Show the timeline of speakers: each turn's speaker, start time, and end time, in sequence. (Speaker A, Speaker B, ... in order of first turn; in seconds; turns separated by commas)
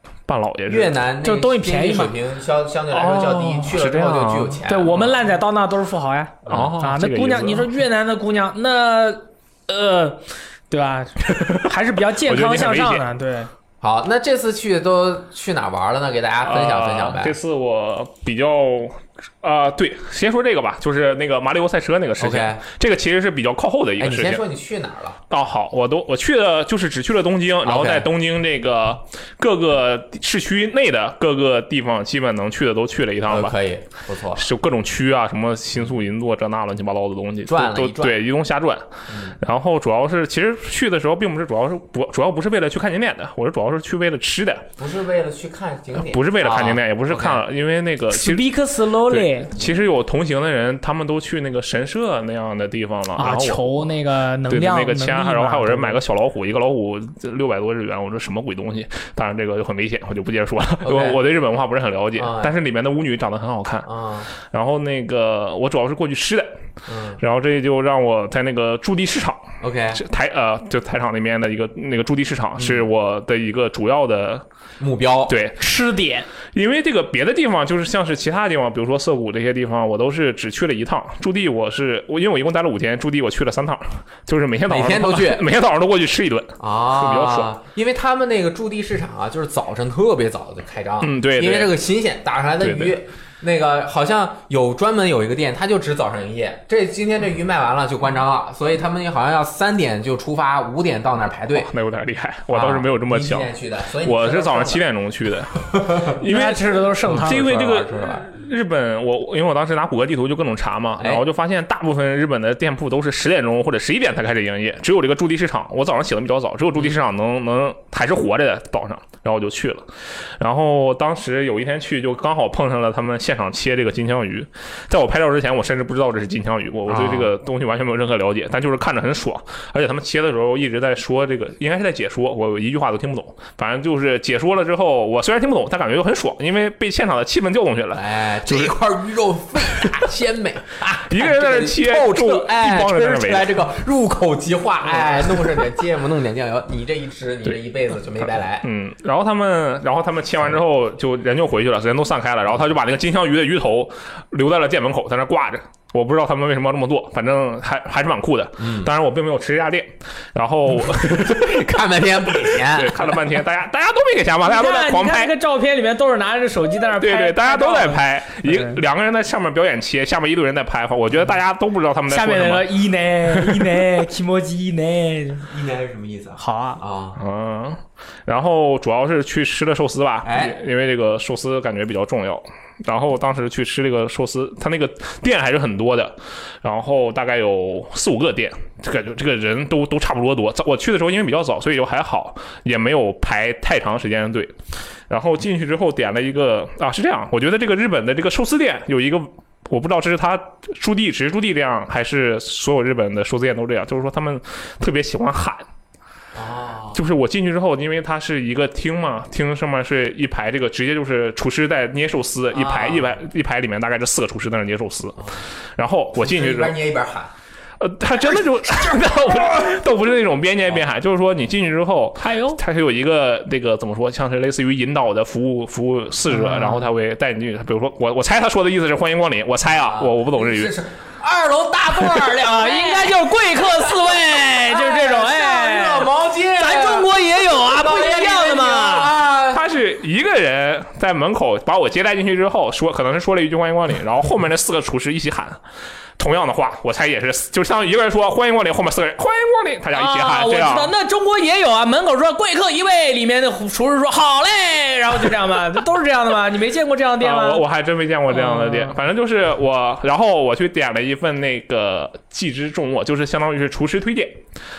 Speaker A: 0.3-1.0, Speaker B: 0.7-5.1, Speaker C: 1.2-2.1, Speaker A: 2.9-4.6, Speaker C: 4.7-13.5, Speaker B: 6.5-6.8, Speaker A: 6.5-7.7, Speaker A: 11.3-11.7, Speaker A: 12.2-13.1, Speaker B: 13.8-17.4, Speaker A: 16.4-24.4, Speaker B: 22.2-22.6, Speaker B: 24.0-25.2, Speaker A: 25.3-33.5, Speaker B: 27.6-28.1, Speaker B: 33.3-34.5, Speaker A: 34.4-38.9, Speaker B: 37.5-38.2, Speaker B: 39.1-39.4, Speaker A: 39.4-44.7, Speaker B: 44.8-47.4, Speaker A: 46.0-48.5, Speaker C: 48.1-49.5, Speaker A: 49.1-53.9, Speaker C: 53.2-56.0, Speaker A: 54.5-66.6, Speaker B: 60.8-61.2, Speaker B: 62.2-62.6, Speaker B: 63.9-64.3, Speaker B: 66.9-67.2, Speaker A: 67.2-74.5, Speaker B: 69.6-70.0, Speaker B: 72.6-72.9, Speaker B: 74.8-75.4, Speaker A: 75.3-75.6, Speaker C: 75.6-76.3, Speaker A: 76.5-87.5, Speaker B: 84.7-85.5, Speaker B: 86.6-101.7, Speaker A: 91.0-91.7, Speaker A: 92.6-93.0, Speaker A: 101.5-138.8, Speaker B: 102.5-104.8, Speaker B: 105.7-106.2, Speaker C: 106.2-107.5, Speaker B: 107.0-108.3, Speaker B: 126.9-127.3, Speaker B: 137.9-148.7, Speaker A: 141.1-143.6, Speaker A: 148.6-161.8, Speaker B: 158.6-158.9, Speaker B: 160.8-163.2, Speaker A: 162.5-165.3, Speaker C: 164.4-168.8, Speaker A: 167.0-172.8, Speaker C: 172.1-175.5, Speaker A: 173.3-173.8, Speaker B: 175.4-177.2, Speaker C: 176.4-176.8, Speaker A: 177.2-194.6, Speaker B: 180.2-180.6, Speaker A: 195.1-205.6, Speaker B: 206.3-207.0, Speaker A: 206.9-216.7, Speaker B: 212.5-213.2, Speaker B: 216.2-217.3, Speaker A: 217.8-230.8, Speaker B: 218.7-219.8, Speaker C: 222.2-222.6, Speaker C: 226.3-226.8, Speaker B: 229.8-239.7, Speaker C: 232.3-239.2, Speaker A: 239.5-245.6, Speaker A: 246.2-250.9, Speaker C: 249.9-257.6, Speaker A: 257.2-264.4, Speaker C: 258.3-259.0